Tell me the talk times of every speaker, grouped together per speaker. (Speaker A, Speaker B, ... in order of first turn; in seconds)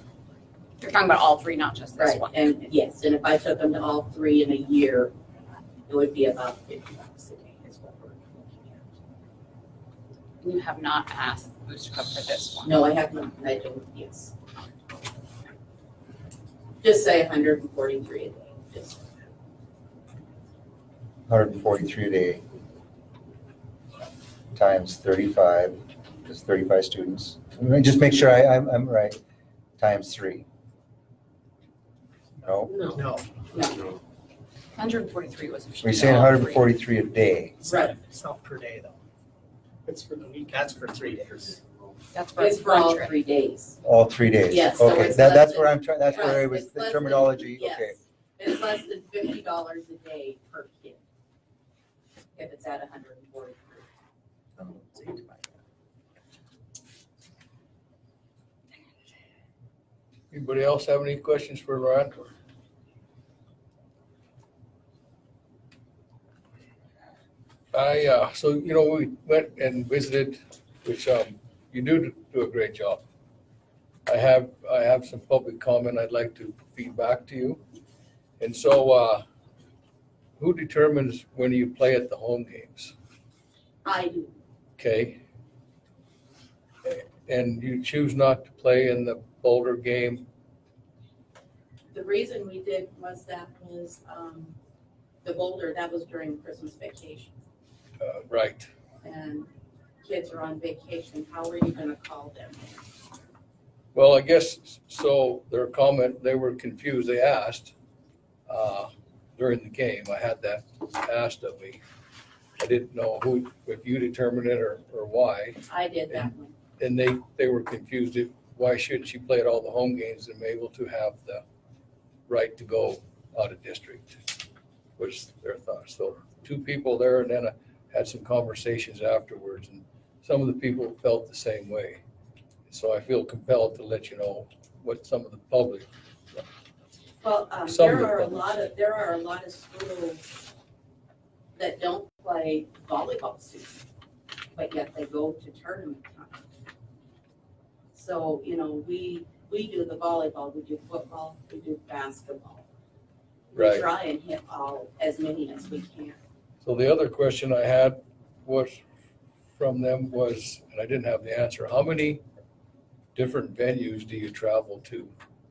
Speaker A: 0.8-2.3, 10.4-12.7, 34.8-36.6, 42.1-43.1
Speaker B: 2.0-5.1, 5.9-8.8, 12.6-14.3, 16.8-19.0, 33.5-33.8, 37.7-37.9, 42.4-43.8, 44.5-51.0, 52.4-53.9, 83.8-84.3, 91.9-94.5, 95.2-97.3, 99.0-99.5, 100.0-102.8, 115.7-116.5, 137.2-140.3, 141.6-143.8, 144.5-146.4, 147.9-152.6, 153.5-156.2
Speaker C: 21.3-22.4, 24.5-29.2, 29.8-30.4, 32.4-33.0, 35.8-37.6, 43.8-48.0
Speaker D: 32.9-33.2, 37.6-39.0, 39.9-41.6, 54.6-55.5
Speaker E: 60.3-62.3, 67.7-73.0, 74.0-77.6, 78.4-79.2, 80.4-82.9, 84.8-85.2, 86.8-90.2, 98.0-98.7, 103.9-107.7, 108.5-111.8, 112.6-116.3, 116.8-121.4, 122.3-124.2, 125.0-132.0, 132.7-136.4, 137.7-138.4, 153.5-153.8, 156.6-158.8, 159.6-162.2, 163.1-165.1